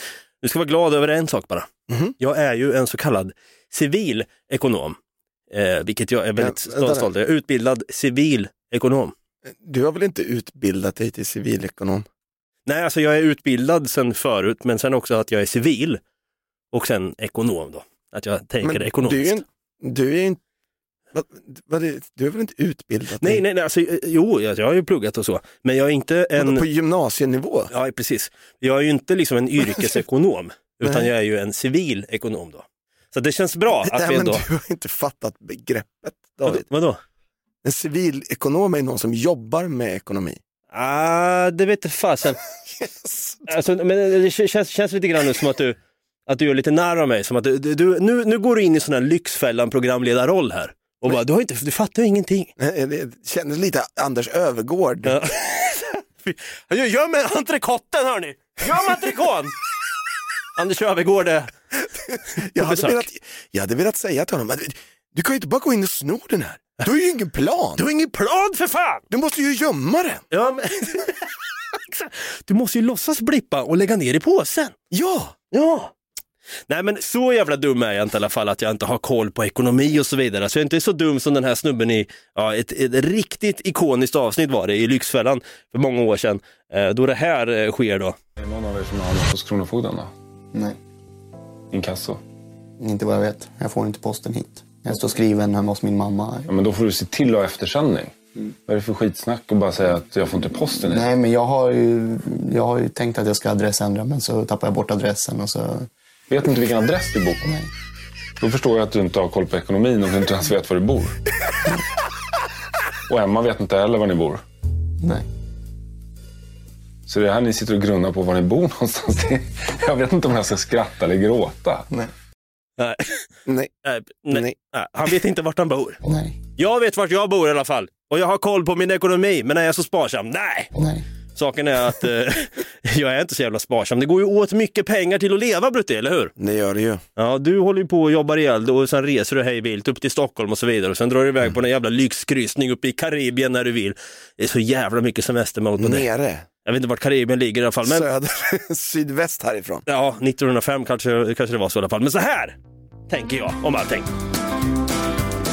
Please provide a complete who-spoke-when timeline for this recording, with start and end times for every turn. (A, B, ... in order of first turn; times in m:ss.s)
0:00.4-0:05.0 A
0:01.9-0:02.1 B
0:05.5-0:09.1 A
0:06.4-0:07.1 B
0:09.4-0:12.0 B
0:12.6-0:16.0 A
0:16.7-0:19.4 A
0:18.6-0:20.4 B
0:21.1-0:23.4 B
0:23.2-0:26.6 A
0:26.4-0:27.7 B
0:27.7-0:34.4 A
0:30.8-0:31.1 B
0:33.7-0:36.6 B
0:36.4-0:37.0 A
0:37.6-0:40.4 B
0:40.7-0:42.4 A
0:42.8-0:43.4 B
0:43.5-0:52.5 A
0:52.6-0:55.2 B
0:55.0-0:59.5 A
1:00.6-1:01.5 A
1:02.4-1:07.8 B
1:02.4-1:03.0 A
1:07.8-1:09.0 A
1:09.1-1:10.2 B
1:10.3-1:14.7 A
1:14.9-1:15.3 B
1:15.5-1:15.9 A
1:16.7-1:28.2 A
1:28.4-1:30.1 C
1:31.7-1:32.2 C
1:32.8-1:36.5 D
1:36.5-1:38.1 C
1:38.7-1:41.1 C
1:40.9-1:45.9 D
1:46.3-1:47.5 C
1:47.4-1:47.7 D
1:48.4-1:51.1 C
1:53.1-1:54.4 C
1:55.0-1:55.2 D
1:57.1-2:01.9 C
2:02.8-2:03.2 A
2:03.4-2:03.7 B
2:03.8-2:06.0 A
2:04.3-2:04.5 B
2:06.0-2:06.4 D
2:06.6-2:10.7 A
2:10.8-2:11.0 D
2:11.4-2:16.3 A
2:16.4-2:17.0 B
2:17.2-2:26.0 A
2:25.8-2:26.4 B
2:26.6-2:28.1 A
2:27.8-2:29.8 B
2:29.9-2:32.6 A
2:33.1-2:34.1 A